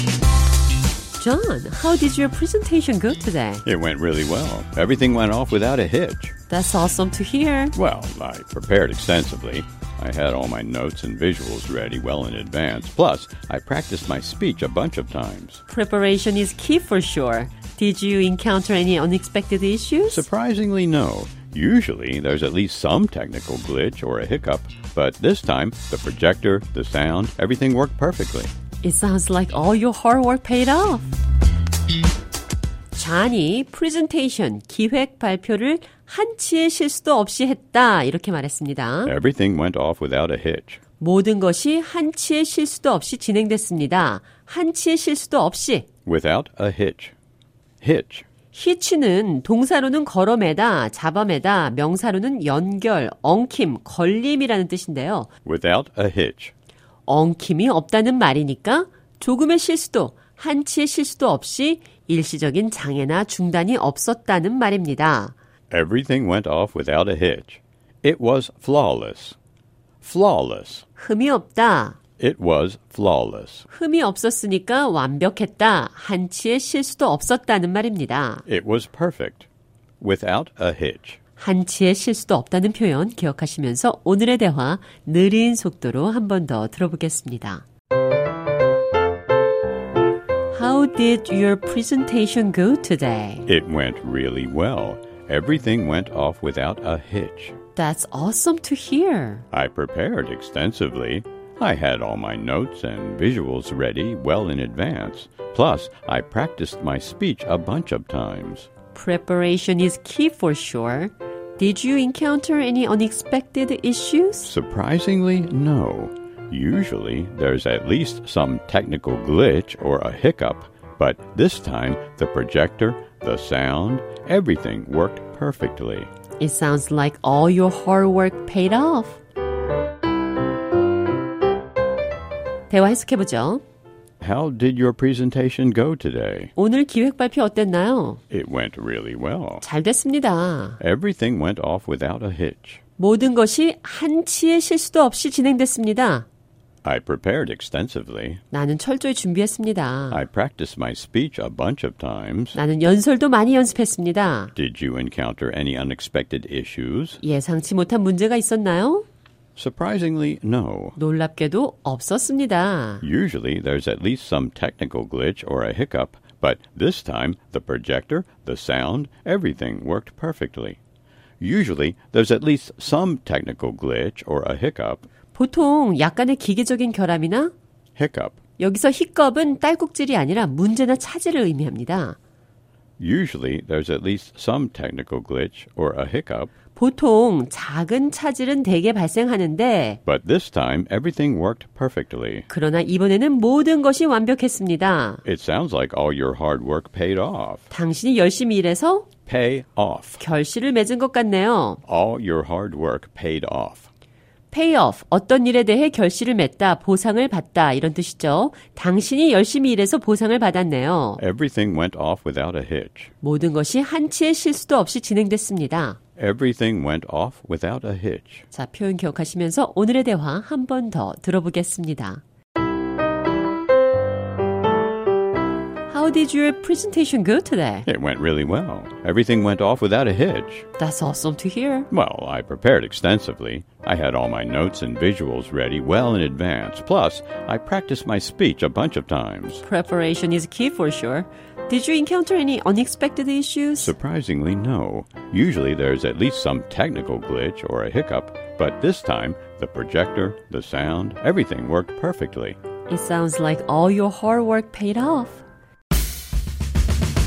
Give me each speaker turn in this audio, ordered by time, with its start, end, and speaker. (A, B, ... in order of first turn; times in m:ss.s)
0:01.2-0:03.6 A
0:03.6-0:06.3 B
0:06.5-0:07.7 A
0:07.8-0:15.6 B
0:15.7-0:20.2 A
0:20.1-0:28.5 B
0:28.8-0:31.1 A
0:32.9-0:39.1 A
0:39.0-0:40.8 B
0:41.0-0:45.8 A
0:46.0-0:47.1 B
0:47.8-0:48.2 B
0:48.5-0:55.3 A
0:55.4-0:56.5 B
0:57.1-1:05.3 A
1:05.7-1:09.4 B
1:10.0-1:10.8 B
1:11.0-1:12.0 A
1:12.2-1:13.7 B
1:13.7-1:18.4 A
1:18.4-1:19.5 B
1:20.0-1:21.2 B
1:21.4-1:27.6 A
1:30.5-1:33.5 A
1:33.5-1:37.5 B
1:37.8-1:39.4 A
1:39.5-1:48.7 B
1:48.9-1:54.5 A
1:54.4-2:06.1 B
2:06.4-2:09.2 A
2:12.7-2:13.6 A
2:14.2-2:16.5 B
2:16.6-2:18.2 A
2:18.3-2:19.6 B
2:19.6-2:20.8 A
2:20.8-2:22.8 B
2:23.0-2:26.2 A
2:26.8-2:28.4 B
2:28.5-2:30.2 A
2:30.1-2:32.6 B
2:32.5-2:34.5 A
2:34.6-2:37.2 B
2:37.2-2:39.0 A
2:39.6-2:41.0 B
2:41.0-2:43.0 A
2:43.0-2:50.8 B
2:51.4-2:55.1 B
2:55.3-2:57.5 A
2:58.0-2:58.4 B
2:58.6-3:02.2 A
3:03.0-3:06.5 B
3:06.7-3:10.0 A
3:10.0-3:12.5 B
3:12.5-3:15.2 A
3:15.2-3:17.7 B
3:17.7-3:19.1 A
3:19.3-3:20.2 B
3:20.2-3:21.8 A
3:21.8-3:23.9 B
3:24.5-3:31.2 A
3:31.2-3:33.1 B
3:33.2-3:36.0 A
3:36.2-3:38.4 B
3:38.5-3:42.2 A
3:45.9-3:47.9 A
3:47.8-3:50.6 B
3:50.8-3:51.9 A
3:51.9-3:59.6 B
3:59.6-4:03.9 A
4:03.8-4:12.6 B
4:12.9-4:15.4 A